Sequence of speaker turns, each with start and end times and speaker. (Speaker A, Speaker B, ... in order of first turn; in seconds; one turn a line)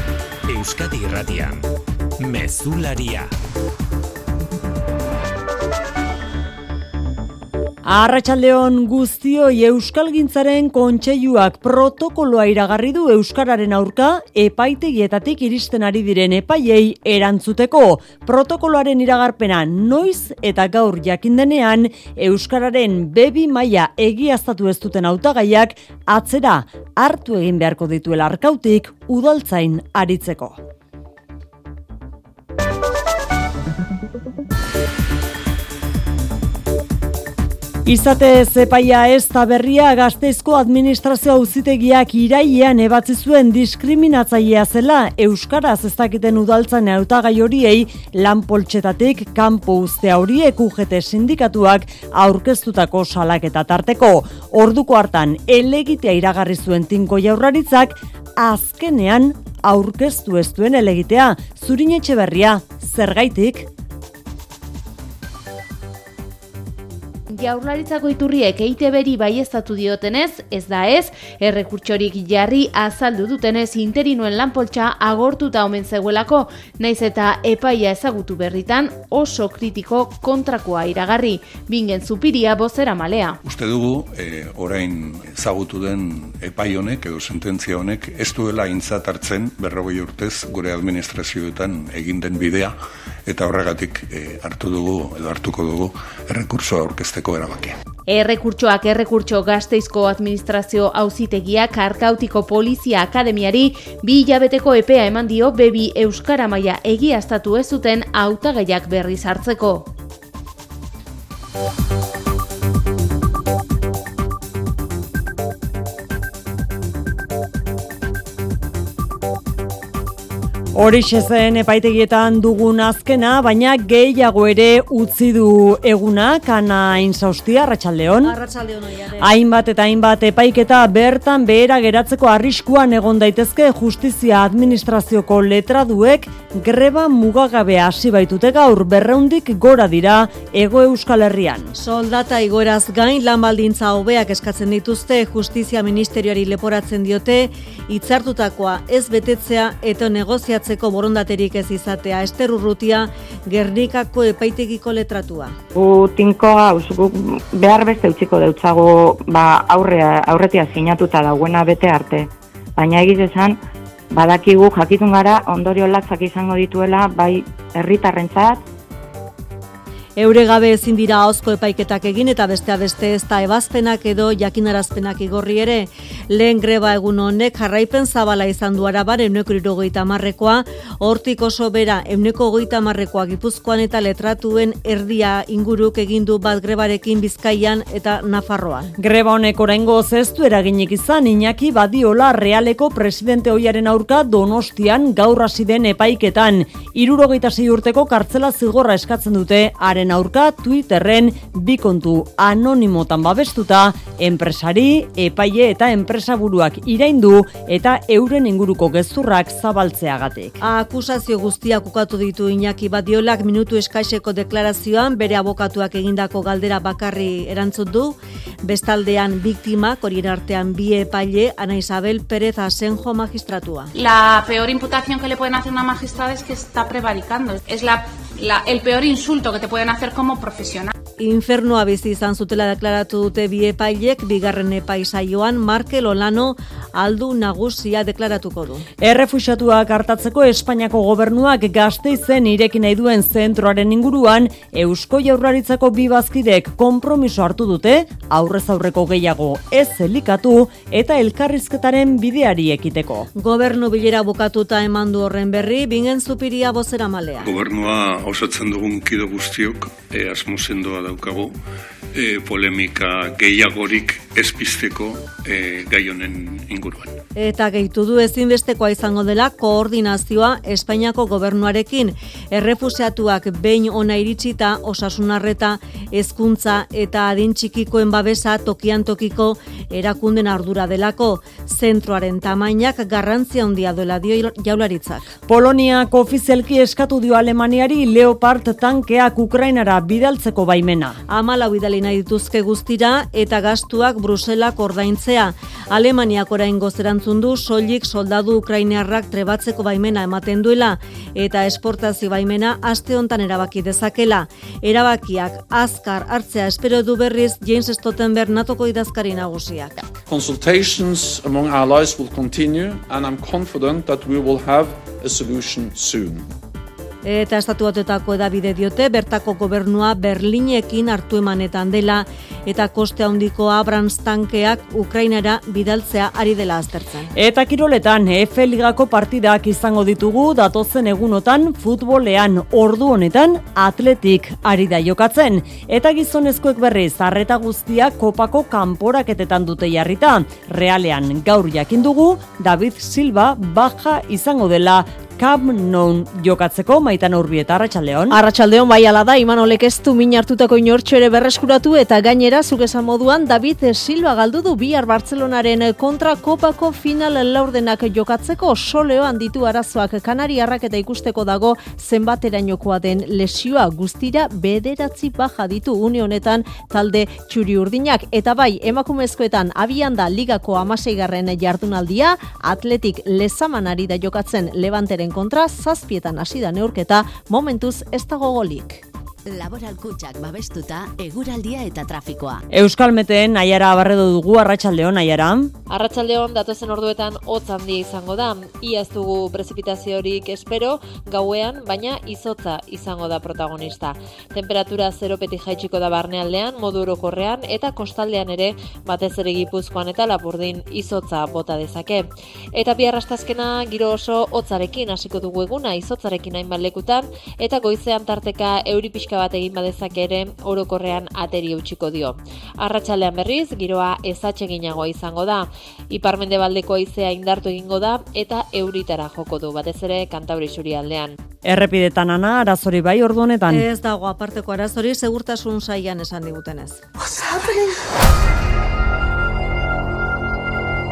Speaker A: 0.5-1.6
Speaker A: 2.2-3.3
Speaker B: 7.8-30.6
Speaker B: 37.8-63.7
Speaker C: 67.3-83.4
Speaker D: 83.4-92.7
Speaker E: 84.3-84.8
Speaker D: 93.3-97.7
Speaker C: 98.1-109.9
Speaker B: 120.7-128.3
Speaker F: 128.2-129.3
Speaker B: 129.2-141.7
Speaker G: 141.8-155.6
Speaker H: 155.7-163.6
Speaker H: 164.1-168.6
Speaker G: 170.2-188.9
Speaker B: 189.0-210.6
Speaker G: 210.6-223.9
Speaker I: 223.9-230.9
Speaker G: 231.2-238.8
Speaker B: 239.0-253.3
Speaker G: 253.4-257.4
Speaker D: 257.4-261.5
Speaker D: 262.1-267.1
Speaker G: 267.4-285.3
Speaker B: 285.5-291.2
Speaker G: 291.3-310.1
Speaker E: 310.3-316.5
Speaker G: 317.2-326.9
Speaker B: 327.3-348.4
Speaker F: 348.3-379.0
Speaker J: 379.5-382.6
Speaker B: 382.7-385.7
Speaker K: 385.9-421.4
Speaker B: 421.6-423.9
Speaker G: 423.7-427.0